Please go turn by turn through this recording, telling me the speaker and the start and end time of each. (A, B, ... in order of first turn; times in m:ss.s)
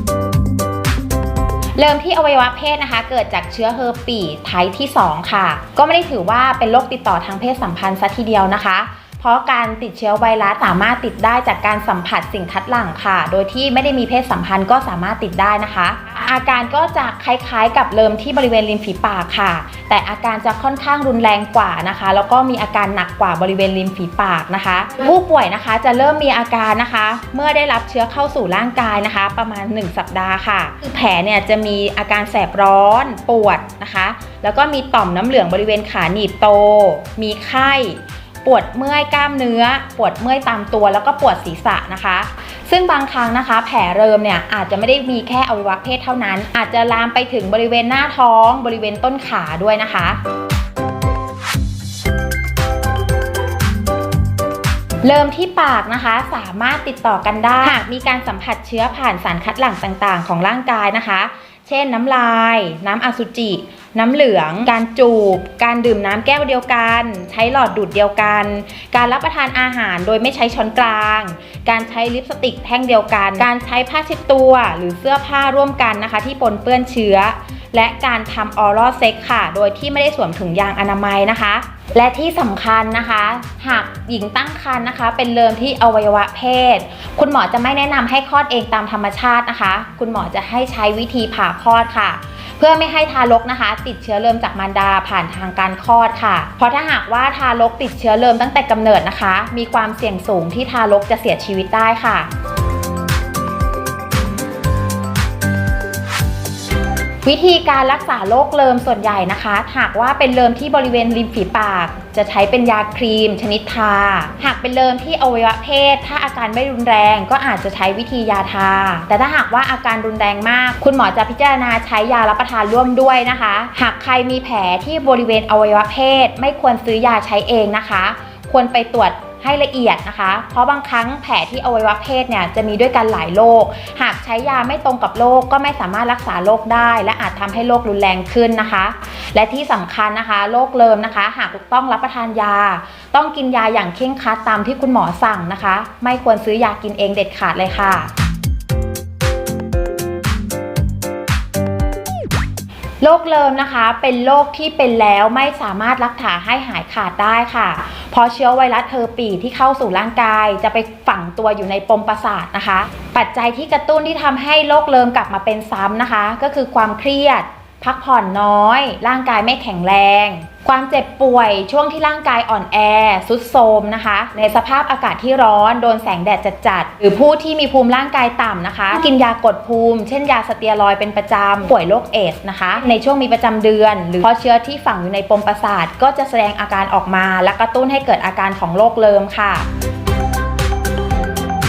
0:01.8-0:50.2 A
0:55.0-1:42.3 A
1:47.2-2:28.1 A
2:33.0-3:09.7 A